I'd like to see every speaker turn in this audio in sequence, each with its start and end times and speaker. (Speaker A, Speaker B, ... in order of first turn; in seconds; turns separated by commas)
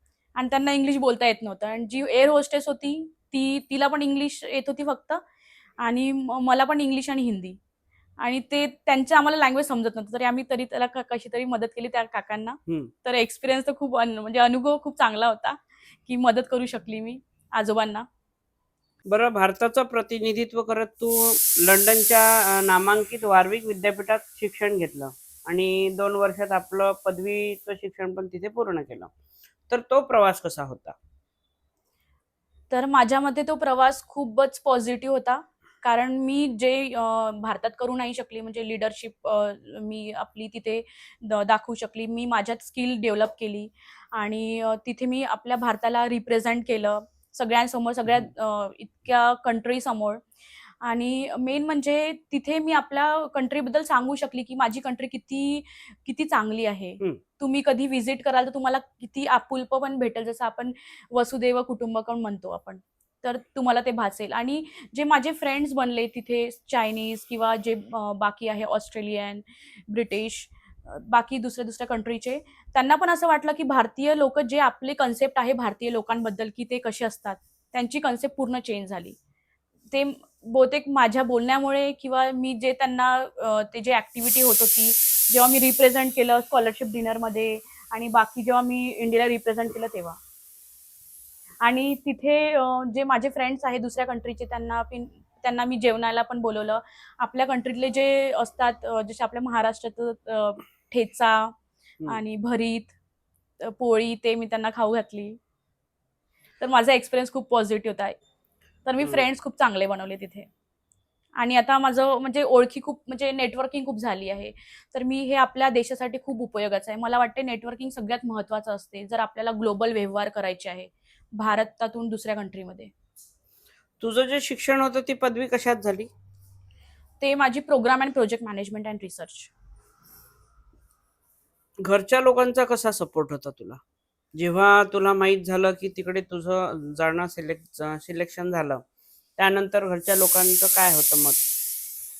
Speaker A: 0.3-5.2, Speaker A: 5.8-7.6, Speaker A: 8.2-18.1, Speaker B: 19.1-29.1, Speaker B: 29.7-30.9, Speaker A: 32.7-79.2, Speaker A: 79.9-90.2, Speaker A: 91.6-102.9, Speaker A: 103.6-105.4, Speaker A: 106.6-108.1, Speaker A: 108.8-110.5, Speaker A: 111.4-122.9, Speaker B: 124.0-126.1, Speaker A: 127.2-129.5, Speaker B: 131.8-133.8, Speaker B: 134.3-138.8, Speaker B: 139.4-141.4